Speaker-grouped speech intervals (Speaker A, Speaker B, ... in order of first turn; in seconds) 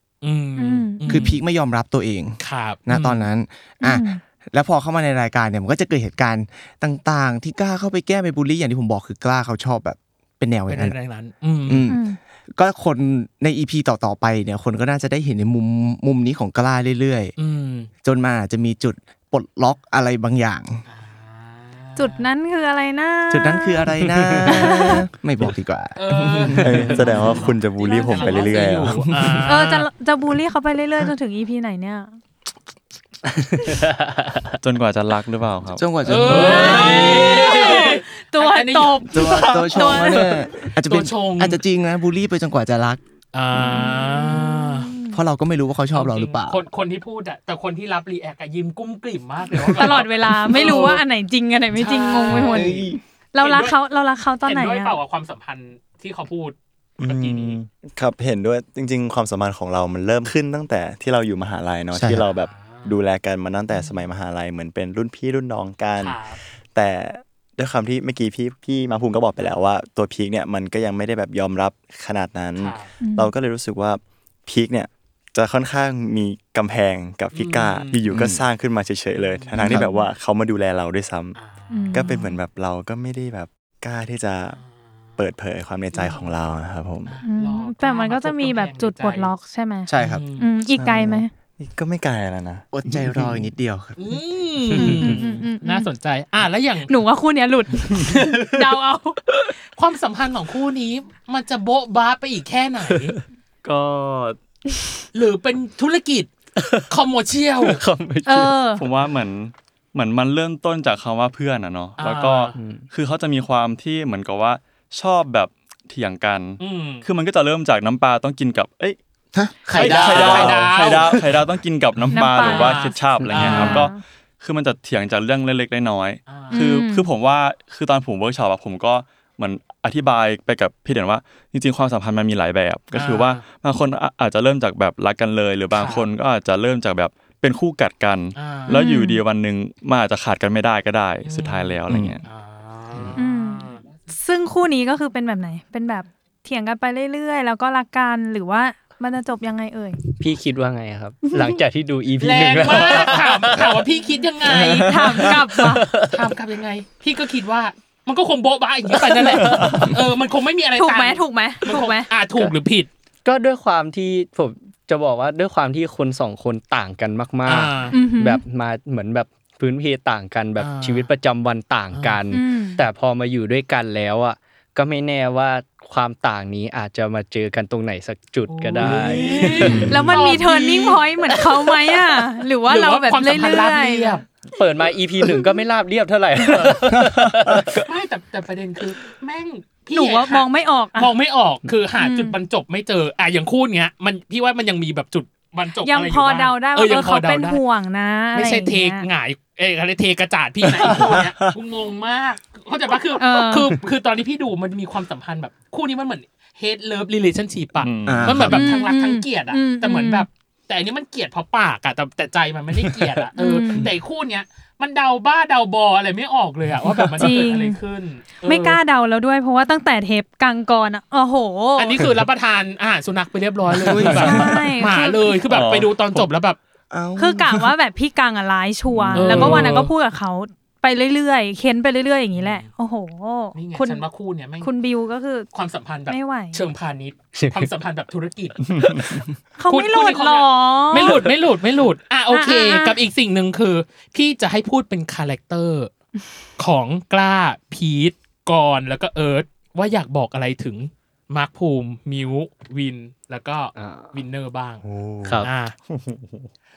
Speaker A: 0.2-1.4, 2.4-3.2, 10.7-11.9, 17.4-17.9, 20.9-22.3, 25.9-29.9, 36.0-41.6, 43.3-44.9, 45.9-51.0, 51.7-52.8, 53.4-53.8, 54.4-57.6, 62.3-63.0, 66.0-66.4, 72.6-72.9, 77.3-78.0, 79.1-79.7, 81.3-82.1, 84.5-85.2, 85.9-86.3, 87.0-89.3, 90.0-90.5, 94.0-96.9, 99.8-103.1, 105.1-106.3, 106.9-107.8, 112.0-112.5, 116.6-117.0, 119.7-121.2, 122.1-123.9, 126.3-126.6, 132.9-133.4, 135.7-136.1, 138.3-138.8, 141.2-144.0, 152.2-155.3, 156.0-162.9, 167.4-168.0, 170.6-171.1, 171.9-172.2, 178.5-184.2, 186.4-186.8, 187.7-197.6, 198.3-218.8, 221.8-226.6, 229.1-229.9, 232.3-232.7, 233.5-234.7, 235.5-245.9, 246.6-254.8, 255.4-255.7
Speaker B: 0.6-1.3, 3.8-4.2, 11.9-12.2, 21.9-23.9, 24.5-25.1, 28.0-28.4, 29.4-32.2, 36.3-40.4, 43.6-45.2, 49.7-55.0, 73.0-73.3, 79.6-80.1, 81.7-82.3, 87.2-91.3, 94.8-95.9, 96.9-99.2, 108.2-108.9, 122.1-124.0, 126.5-127.1, 138.7-139.2, 143.2-150.0, 154.7-155.9, 160.8-162.1, 167.9-168.4, 172.3-172.8, 179.8-184.2, 189.9-191.1, 192.0-192.4, 195.8-199.1, 203.2-203.8, 208.5-210.3, 213.3-213.9, 217.2-217.8, 218.4-222.0, 224.2-225.3, 227.2-234.1, 234.6-235.5, 236.1-236.6, 239.6-241.3, 242.3-243.0
Speaker C: 1.1-10.9, 11.7-17.3, 18.0-20.8, 23.3-27.2, 28.8-29.4, 35.8-37.1, 39.1-43.0, 45.1-46.6, 52.4-53.0, 61.9-62.2, 78.1-78.4, 89.9-90.2, 92.7-94.2, 119.3-121.2, 141.9-142.2, 154.4-155.4, 179.7-180.0, 187.0-187.6, 208.1-208.7, 223.8-224.5, 226.9-227.7
Speaker D: 24.1-24.4, 33.5-34.2, 94.7-95.2, 98.0-98.6, 102.9-104.4, 106.6-106.9, 107.6-108.6, 112.5-112.9, 123.2-123.7, 150.2-153.7, 155.6-156.2, 159.1-159.9, 163.2-179.9, 184.5-187.8, 212.8-213.2, 224.0-224.3, 237.3-237.7, 253.7-254.1, 255.2-255.5
Speaker E: 26.6-29.1, 57.0-66.2, 66.7-81.4, 81.9-84.6, 85.2-87.2, 90.8-93.3, 179.7-179.9, 254.8-256.4
Speaker F: 34.6-36.3, 108.8-119.0, 119.7-142.2, 207.8-208.5, 225.5-226.2, 229.1-229.7, 238.7-239.2